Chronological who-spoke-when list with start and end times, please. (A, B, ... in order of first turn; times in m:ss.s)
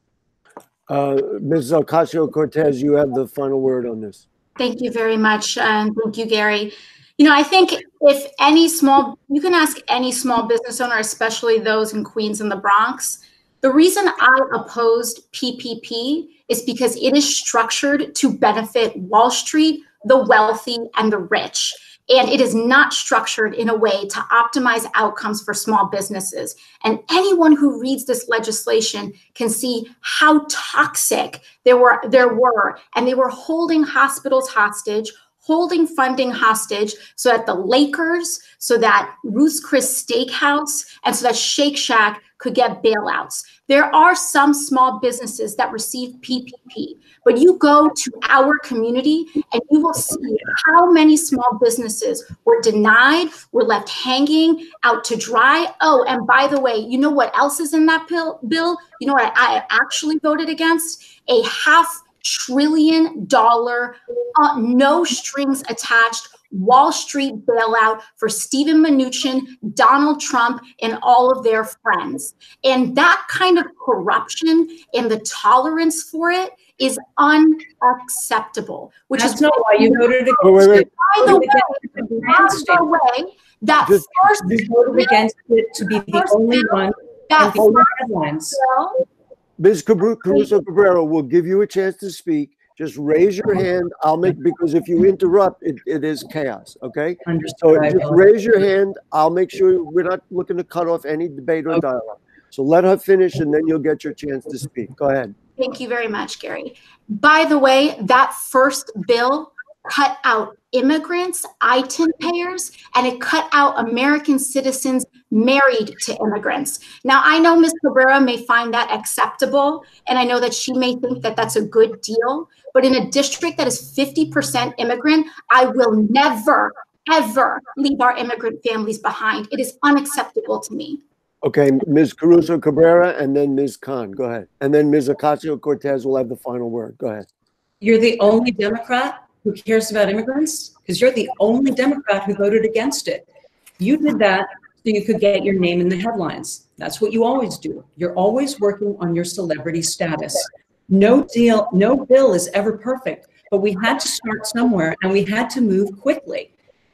0:00.9-0:04.2 A
0:04.6-1:25.2 B
1:19.2-1:22.8 C
1:20.4-1:20.9 A
1:24.4-1:28.6 C
1:26.1-1:28.0 B
1:28.5-1:29.0 B
1:29.6-1:45.3 A
1:37.3-1:38.2 C
1:45.6-2:11.0 B
2:11.4-2:17.2 A
2:17.8-2:23.2 C
2:23.8-2:36.5 C